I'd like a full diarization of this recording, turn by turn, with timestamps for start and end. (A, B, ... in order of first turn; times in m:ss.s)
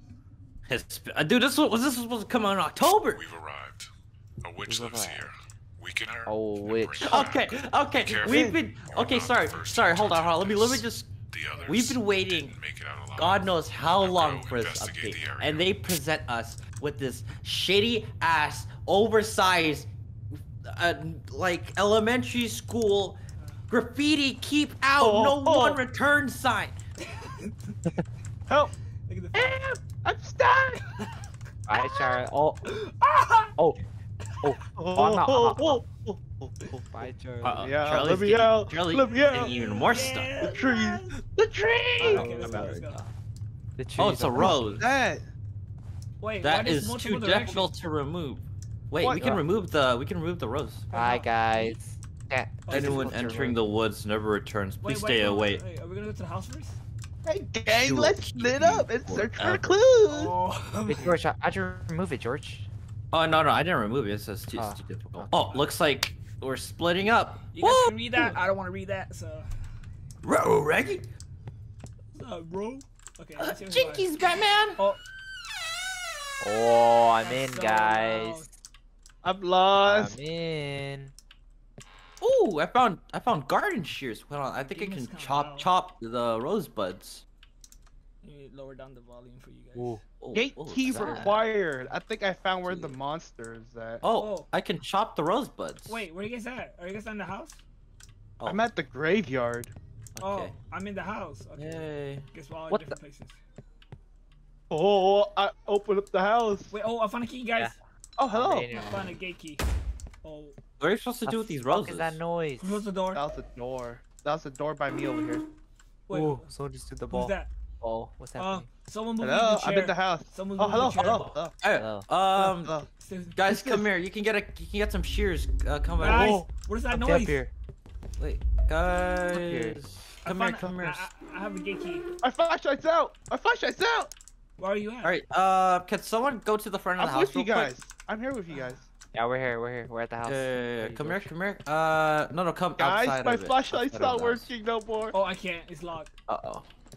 0:00.7-0:03.2 A
0:03.1-0:03.9 B
0:04.4-0:15.7 B
0:04.6-0:05.3 C
0:06.2-0:07.3 C
0:07.0-0:11.1 A
0:08.3-0:08.6 D
0:11.6-0:12.6 A
0:13.2-0:23.2 A
0:23.4-0:23.6 E
0:23.7-0:26.8 A
0:25.0-0:25.8 D
0:27.0-0:27.9 E
0:29.1-0:29.6 E
0:29.3-0:30.8 D
0:31.7-0:32.6 C
0:31.7-0:33.5 E
0:33.6-0:33.8 C
0:34.4-0:35.8 C
0:34.8-0:36.8 D
0:36.8-0:37.7 C
0:37.4-0:40.5 A
0:37.6-0:39.6 D
0:38.9-0:41.2 E
0:40.4-0:42.8 D
0:42.0-0:43.0 E
0:42.0-0:43.1 A
0:42.1-0:42.8 C
0:43.8-0:44.6 C
0:44.0-0:44.9 A
0:44.4-0:45.3 D
0:46.2-0:47.7 E
0:46.4-0:50.9 A
0:49.0-0:49.4 D
0:50.9-0:51.8 E
0:50.9-0:53.6 C
0:52.6-0:53.1 E
0:52.7-0:55.6 A
0:54.8-0:56.8 E
0:57.2-1:00.3 D
0:57.6-0:59.6 A
1:00.1-1:01.1 E
1:00.9-1:02.7 C
1:03.1-1:08.4 A
1:04.5-1:05.3 C
1:07.5-1:09.5 E
1:10.2-1:11.1 A
1:12.1-1:14.1 E
1:13.4-1:14.8 A
1:16.4-1:18.4 C
1:17.2-1:18.5 E
1:19.2-1:20.2 D
1:19.8-1:21.1 C
1:22.2-1:27.2 A
1:24.6-1:25.7 E
1:28.2-1:30.0 E
1:30.2-1:31.5 A
1:30.3-1:34.0 D
1:32.6-1:33.0 A
1:34.0-1:36.0 A
1:34.1-1:34.5 E
1:35.9-1:37.6 E
1:38.4-1:38.6 A
1:38.4-1:39.7 D
1:40.1-1:40.5 A
1:40.2-1:43.4 E
1:41.6-1:42.2 A
1:42.7-1:43.0 C
1:44.7-1:46.7 D
1:46.7-1:47.8 E
1:48.2-1:48.7 D
1:48.3-1:49.2 C
1:48.7-1:49.6 E
1:50.2-1:50.6 E
1:50.8-1:52.2 A
1:51.2-1:52.8 C
1:52.6-1:53.2 E
1:53.1-1:55.4 D
1:56.1-1:56.5 E
1:56.1-1:58.7 C
1:57.1-1:57.5 E
1:58.3-2:01.4 E
1:59.2-2:01.5 D
2:01.6-2:02.8 A
2:02.3-2:02.9 D
2:03.0-2:03.4 E
2:03.4-2:06.4 A
2:03.5-2:03.9 D
2:06.0-2:06.5 D
2:06.0-2:07.4 E
2:06.9-2:07.5 C
2:08.2-2:11.1 A
2:09.3-2:09.8 C
2:10.2-2:12.0 E
2:12.2-2:14.1 D
2:14.6-2:15.2 E
2:15.0-2:17.7 A
2:17.0-2:18.9 D
2:18.5-2:18.8 E
2:19.1-2:21.3 C
2:20.2-2:24.5 A
2:22.8-2:25.2 D
2:25.1-2:26.1 E
2:26.3-2:26.6 A